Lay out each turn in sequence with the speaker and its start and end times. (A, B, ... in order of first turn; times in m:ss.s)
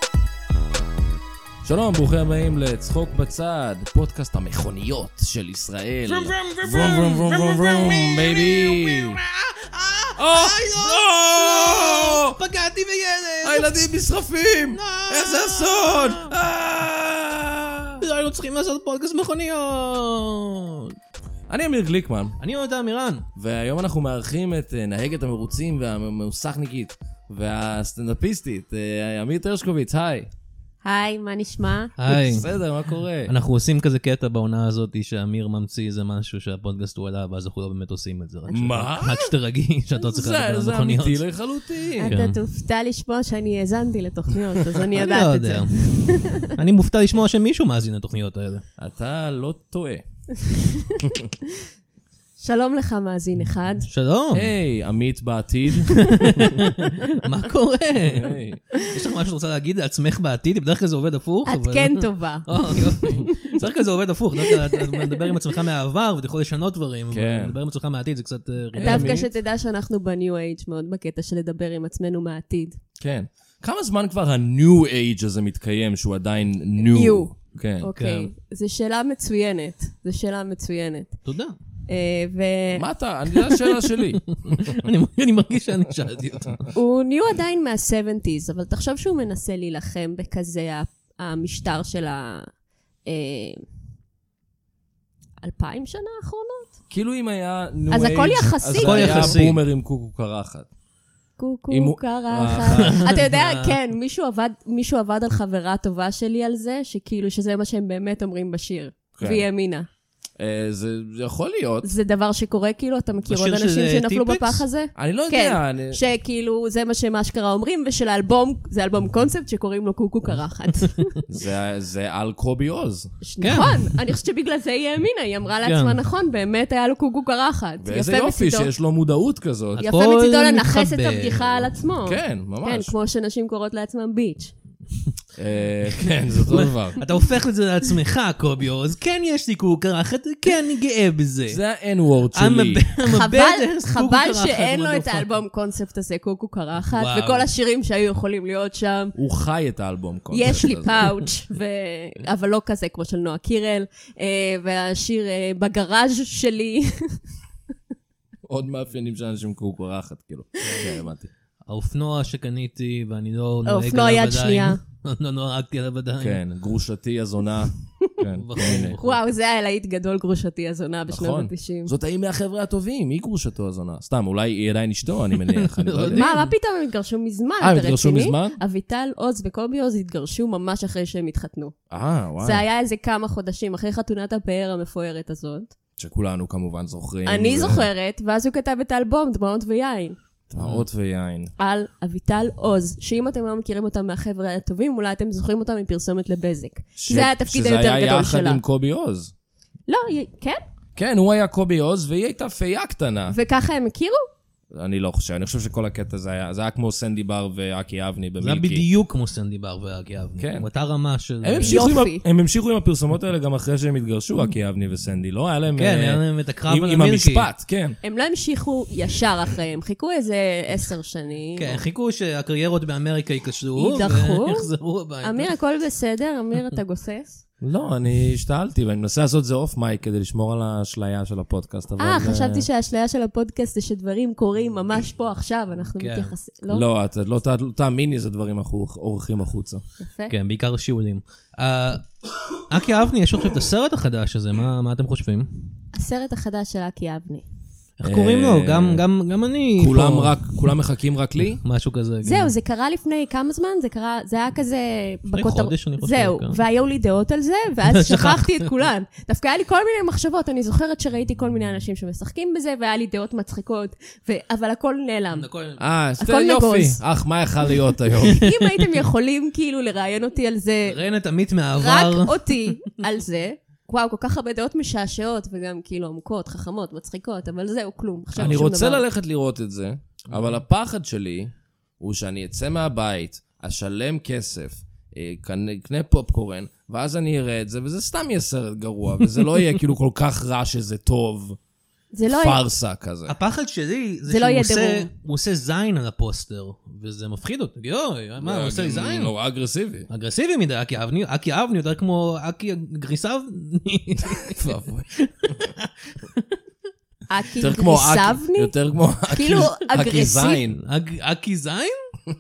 0:01.6-0:09.2 A
0:06.1-0:13.9 B
0:10.2-0:12.4 A
0:13.4-0:18.1 A
0:14.7-0:16.4 B
0:18.0-0:21.0 B
0:21.5-0:22.4 A
0:22.4-0:23.3 B
0:23.4-0:30.3 A
0:30.8-0:31.9 C
0:32.0-0:32.5 B
0:32.1-0:33.3 A
0:33.3-0:41.2 B
0:38.5-0:39.3 A
0:40.0-0:42.1 A
0:42.0-0:46.6 C
0:42.1-0:42.4 B
0:45.0-0:48.6 B
0:48.8-0:50.0 A
0:52.4-0:53.9 C
0:53.9-0:54.5 B
0:54.3-0:56.3 A
0:56.0-1:09.2 B
0:56.2-0:57.1 C
0:58.1-0:58.6 A
1:01.5-1:03.6 C
1:04.4-1:05.3 C
1:07.1-1:07.6 A
1:08.8-1:09.3 A
1:08.8-1:12.8 C
1:13.0-1:17.9 A
1:16.8-1:21.2 C
1:18.0-1:18.3 B
1:21.3-1:21.6 B
1:21.9-1:22.9 C
1:22.8-1:24.8 A
1:23.8-1:26.6 B
1:26.7-1:32.5 C
1:33.1-1:33.6 C
1:35.4-1:36.7 C
1:36.9-1:40.7 A
1:37.9-1:39.4 C
1:38.8-1:39.6 B
1:41.4-1:49.9 C
1:41.7-1:42.8 A
1:42.3-1:43.8 B
1:49.2-1:49.4 A
1:50.4-1:51.9 A
1:51.8-2:01.2 C
1:53.3-1:54.6 B
1:55.0-1:56.0 A
2:01.3-2:03.1 A
2:03.2-2:08.7 C
2:03.4-2:04.0 B
2:05.6-2:06.0 B
2:07.8-2:09.8 A
2:09.8-2:11.7 B
2:09.8-2:14.5 C
2:12.1-2:12.9 A
2:15.4-2:17.0 A
2:16.5-2:21.6 B
2:21.5-2:22.8 A
2:22.3-2:25.3 B
2:23.1-2:29.2 C
2:26.9-2:27.5 B
2:29.2-2:31.1 A
2:30.3-2:37.2 C
2:38.4-2:41.3 A
2:41.7-2:46.4 B
2:43.7-2:44.8 C
2:46.2-2:49.0 A
2:48.4-2:49.2 B
2:49.0-2:51.9 C
2:51.1-2:56.3 A
2:55.5-2:56.5 B
2:56.1-3:01.7 C
2:57.6-2:58.6 A
3:01.9-3:02.6 A
3:02.4-3:05.7 C
3:06.0-3:07.9 A
3:07.2-3:10.2 C
3:10.5-3:11.5 A
3:10.6-3:10.8 B
3:11.6-3:18.6 C
3:17.0-3:19.3 A
3:19.9-3:20.6 C
3:21.0-3:23.4 A
3:23.3-3:24.2 C
3:24.7-3:28.8 A
3:28.4-3:31.9 B
3:30.4-3:30.7 A
3:31.4-3:38.0 A
3:31.6-3:32.2 C
3:35.8-3:37.5 B
3:38.0-3:41.8 C
3:41.6-3:45.5 B
3:43.8-3:44.7 C
3:45.2-3:47.4 C
3:47.6-3:52.7 A
3:52.0-3:56.8 C
3:56.0-3:56.3 B
3:56.7-3:59.8 A
4:00.0-4:00.3 C
4:00.3-4:02.1 B
4:02.7-4:05.5 B
4:05.9-4:07.4 C
4:08.0-4:10.4 B
4:08.0-4:09.0 A
4:09.8-4:11.6 A
4:11.6-4:12.5 B
4:12.2-4:25.5 C
4:15.3-4:16.6 B
4:17.9-4:18.7 B
4:25.3-4:25.8 B
4:25.8-4:28.4 A
4:26.2-4:27.0 C
4:28.3-4:31.0 C
4:30.9-4:32.7 B
4:31.8-4:39.0 C
4:38.4-4:38.6 B
4:38.4-4:51.6 A
4:52.1-4:52.6 C
4:52.3-4:53.4 A
4:53.3-4:59.3 B
4:54.3-4:55.1 C
4:58.4-5:00.1 A
5:00.1-5:06.5 B
5:04.4-5:05.1 A
5:07.3-5:08.7 C
5:07.6-5:10.8 A
5:09.3-5:10.6 C
5:10.8-5:12.0 B